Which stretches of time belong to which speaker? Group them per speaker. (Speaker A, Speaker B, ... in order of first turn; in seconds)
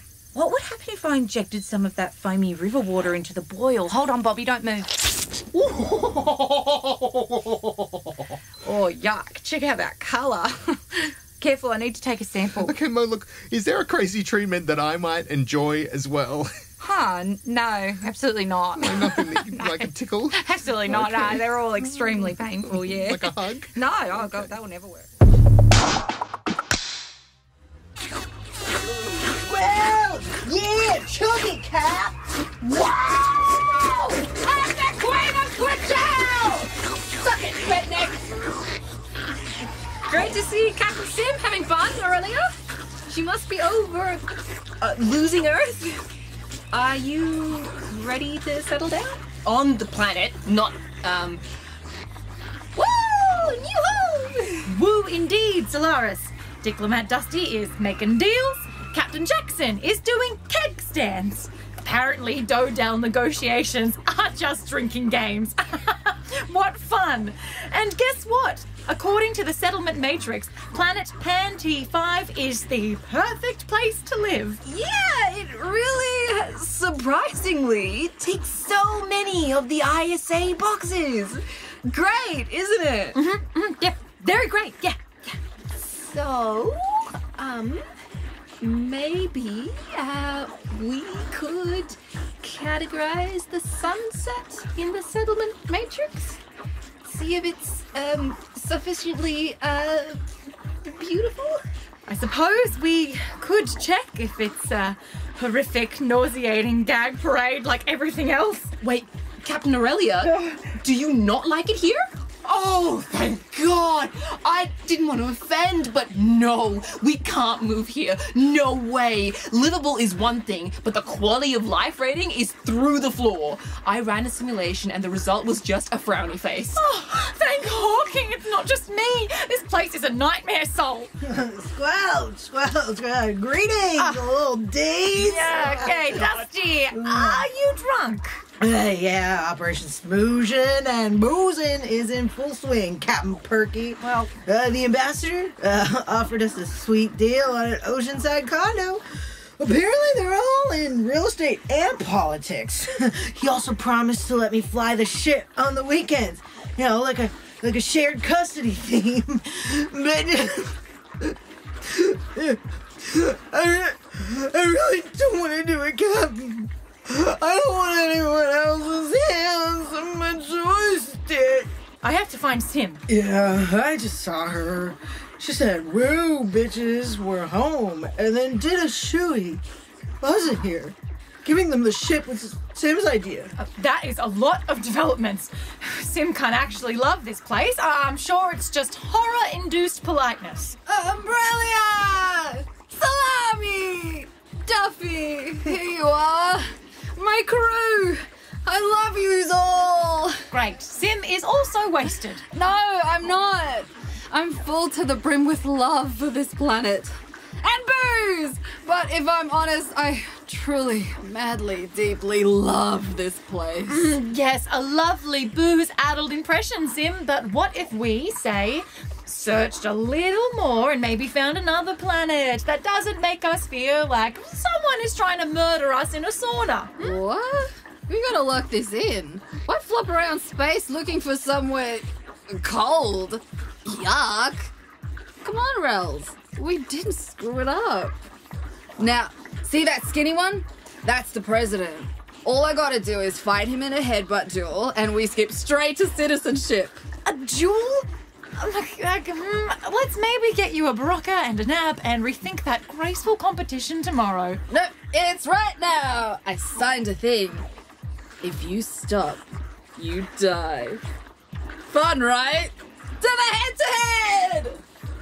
Speaker A: 0.3-5.1, 8.6-12.8, 16.8-25.1
Speaker B: 5.5-8.4, 12.6-16.5, 18.8-24.5
Speaker C: 29.2-32.2, 131.2-137.4, 138.6-171.7, 173.1-179.6, 180.2-183.5
Speaker D: 34.4-38.3, 40.1-42.5, 43.1-44.3, 44.8-46.0, 46.7-51.4, 52.7-54.7, 76.8-83.2, 84.0-87.8, 88.6-96.4, 97.0-100.2, 100.8-101.6, 108.8-126.8
Speaker E: 54.6-74.6, 83.1-84.0, 102.1-108.7, 126.7-131.1, 134.0-134.2, 135.1-138.4, 144.0-144.3, 172.0-173.0, 183.6-190.8, 200.5-202.4, 213.9-227.2, 247.2-254.6
Speaker F: 74.7-77.6, 190.9-200.4, 202.5-214.2, 227.0-234.7, 235.4-238.2, 239.0-247.0, 254.7-257.6, 258.4-259.4, 260.0-261.0, 261.9-264.8